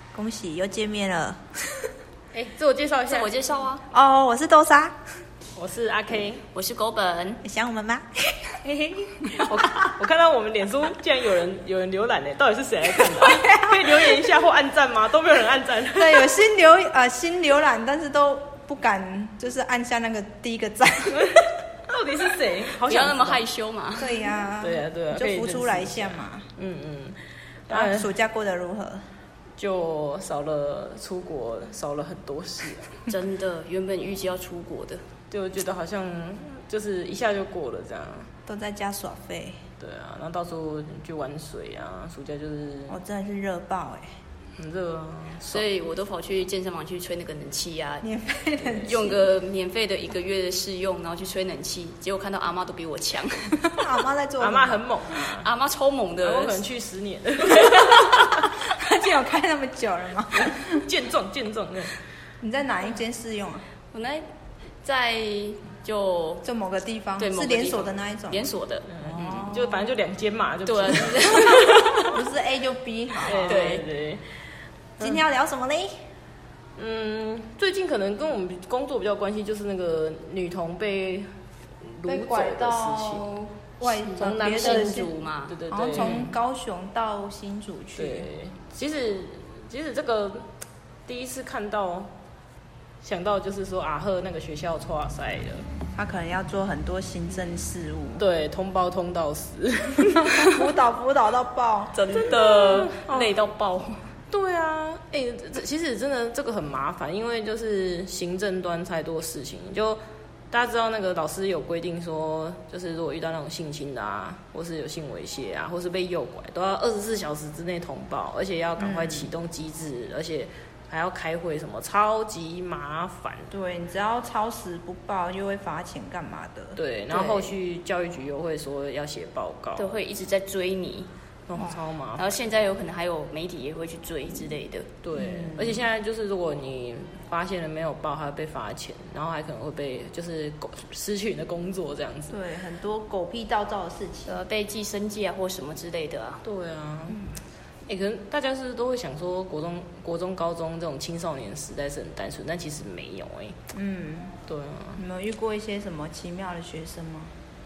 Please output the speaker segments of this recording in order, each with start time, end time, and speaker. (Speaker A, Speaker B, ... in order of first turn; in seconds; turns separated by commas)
Speaker A: 0.1-1.9, Speaker B: 2.3-3.4, Speaker C: 3.1-3.8, Speaker A: 3.9-5.0, Speaker B: 5.5-6.4, Speaker C: 6.5-7.4, Speaker A: 7.4-9.7, Speaker B: 9.3-16.3, Speaker A: 13.0-14.2, Speaker A: 15.9-21.4, Speaker B: 21.1-23.4, Speaker C: 22.8-24.2, Speaker A: 24.0-26.5, Speaker B: 24.6-28.1, Speaker A: 27.7-29.0, Speaker B: 29.6-33.0, Speaker C: 33.1-35.0, Speaker B: 35.3-38.3, Speaker A: 38.5-39.6, Speaker B: 39.8-43.0, Speaker A: 42.9-44.1, Speaker B: 44.6-45.7, Speaker C: 45.5-48.1, Speaker A: 48.0-49.2, Speaker C: 48.7-53.8, Speaker A: 53.7-54.8, Speaker B: 54.4-55.5, Speaker C: 55.4-56.6, Speaker B: 56.2-58.5, Speaker A: 58.6-60.8, Speaker B: 60.4-62.0, Speaker A: 62.4-63.6, Speaker C: 63.9-64.3, Speaker C: 64.8-66.5, Speaker A: 66.4-68.5, Speaker C: 67.2-68.8, Speaker B: 68.9-72.2, Speaker A: 69.0-69.9, Speaker C: 70.7-71.9, Speaker A: 72.1-73.7, Speaker B: 73.2-74.2, Speaker C: 73.5-73.8, Speaker A: 75.0-75.9, Speaker B: 76.8-81.3, Speaker B: 81.8-83.3, Speaker A: 82.0-85.1, Speaker C: 83.9-85.6, Speaker B: 84.2-86.4, Speaker A: 85.7-88.3, Speaker B: 88.0-90.5, Speaker B: 91.1-92.1, Speaker B: 93.0-95.7, Speaker A: 96.0-98.2, Speaker B: 98.2-100.6, Speaker A: 100.3-102.0, Speaker C: 101.9-104.0, Speaker B: 102.2-103.3, Speaker B: 104.3-110.0, Speaker B: 110.5-123.5, Speaker A: 118.8-119.3, Speaker A: 123.5-126.8, Speaker B: 126.8-130.0, Speaker C: 127.1-127.5, Speaker C: 129.8-131.1, Speaker B: 131.5-132.3, Speaker C: 132.2-134.9, Speaker B: 135.0-142.4, Speaker A: 135.1-135.9, Speaker A: 142.3-144.4, Speaker C: 144.3-146.4, Speaker B: 146.4-147.3, Speaker B: 147.9-153.6, Speaker A: 153.7-154.4, Speaker B: 154.5-155.0, Speaker A: 155.0-157.3